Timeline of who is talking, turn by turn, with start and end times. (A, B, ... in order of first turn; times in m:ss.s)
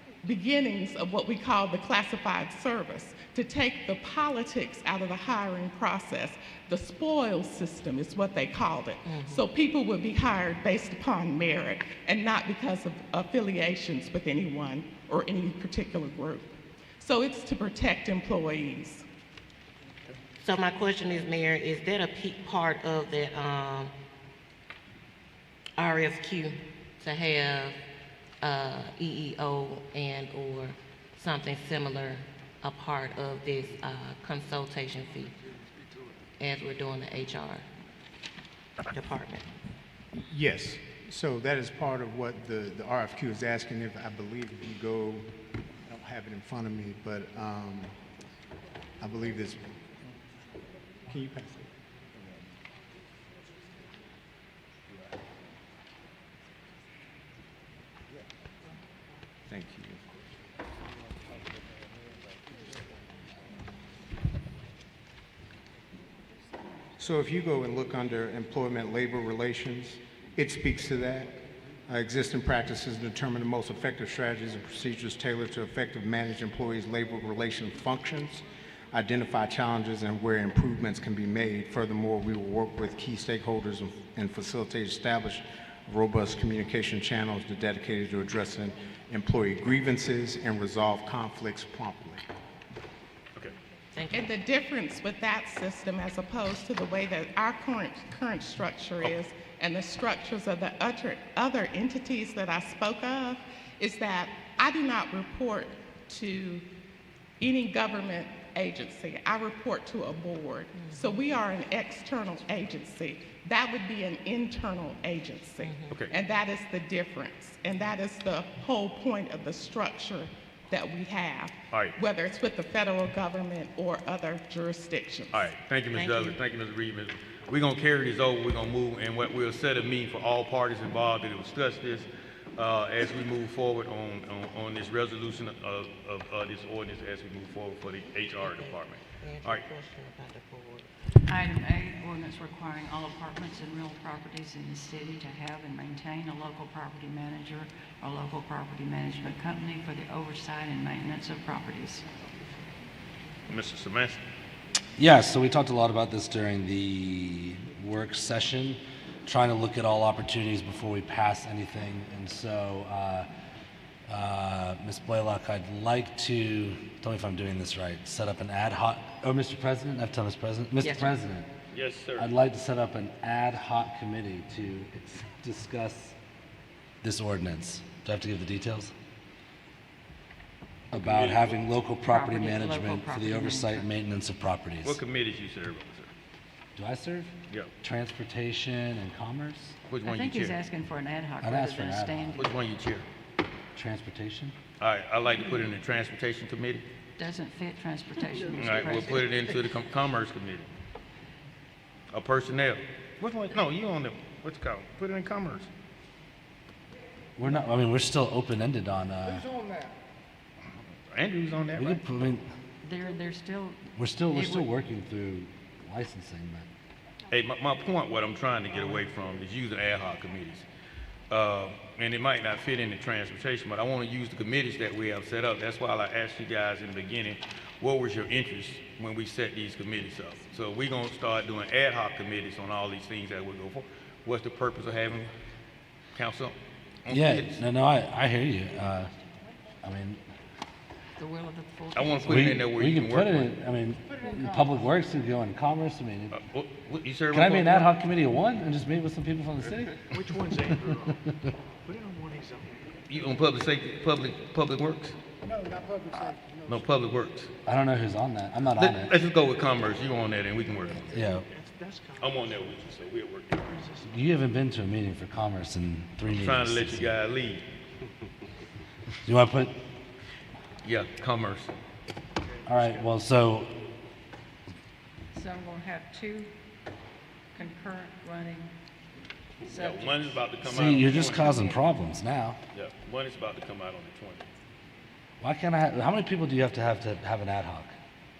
0:00.2-0:19.0 A
0:09.0-0:09.4 B
0:20.4-0:23.9 B
0:25.8-0:27.8 B
0:28.4-0:35.3 B
0:36.4-0:37.6 B
0:38.9-0:39.5 B
0:40.1-0:45.3 C
0:45.8-0:47.9 C
0:49.0-0:49.6 C
0:51.1-0:51.7 C
0:59.5-1:00.0 C
1:07.0-1:11.3 C
1:11.9-1:32.2 C
1:33.9-1:34.3 B
1:34.1-1:46.6 A
1:47.4-2:05.5 A
1:50.8-1:51.1 B
1:55.6-1:55.9 B
2:01.7-2:02.0 D
2:05.3-2:19.6 D
2:05.9-2:06.4 B
2:18.4-2:20.9 B
2:21.2-2:32.0 E
2:33.5-2:34.2 D
2:35.0-2:43.3 F
2:44.1-2:51.5 F
2:50.8-2:51.1 B
2:51.7-2:52.3 D
2:52.2-2:56.1 F
2:57.0-2:58.9 F
3:00.9-3:01.6 D
3:00.9-3:05.0 F
3:02.0-3:03.9 E
3:04.8-3:06.1 D
3:06.8-3:07.3 F
3:07.8-3:09.8 F
3:09.9-3:10.6 D
3:10.0-3:12.4 E
3:11.4-3:12.5 F
3:12.4-3:13.1 D
3:13.8-3:14.5 F
3:14.8-3:16.8 D
3:17.2-3:19.2 E
3:18.6-3:20.7 D
3:22.1-3:25.7 D
3:27.4-3:29.5 F
3:31.1-3:32.0 D
3:31.7-3:32.4 F
3:32.8-3:34.7 E
3:33.9-3:36.7 F
3:37.3-3:40.6 D
3:41.3-3:55.3 D
3:56.1-3:57.6 D
3:57.1-3:59.1 F
3:59.8-4:00.2 F
4:01.2-4:02.6 E
4:01.9-4:03.5 D
4:02.3-4:06.4 F
4:06.3-4:07.9 D
4:07.3-4:10.1 F
4:10.0-4:11.2 G
4:11.8-4:12.9 G
4:13.1-4:15.2 D
4:16.2-4:17.5 D
4:17.6-4:19.1 F
4:18.8-4:21.2 D
4:21.1-4:21.5 F
4:21.2-4:22.9 G
4:22.2-4:23.7 D
4:23.6-4:24.1 G
4:24.1-4:27.1 F
4:26.3-4:27.6 D
4:29.2-4:29.8 F
4:30.8-4:31.7 D
4:32.6-4:33.7 F
4:32.7-4:33.0 G
4:35.3-4:36.5 E
4:37.5-4:38.7 E
4:39.6-4:40.5 E
4:39.7-4:41.5 D
4:40.6-4:42.6 F
4:41.1-4:41.8 E
4:42.7-4:44.5 D
4:45.4-4:47.9 F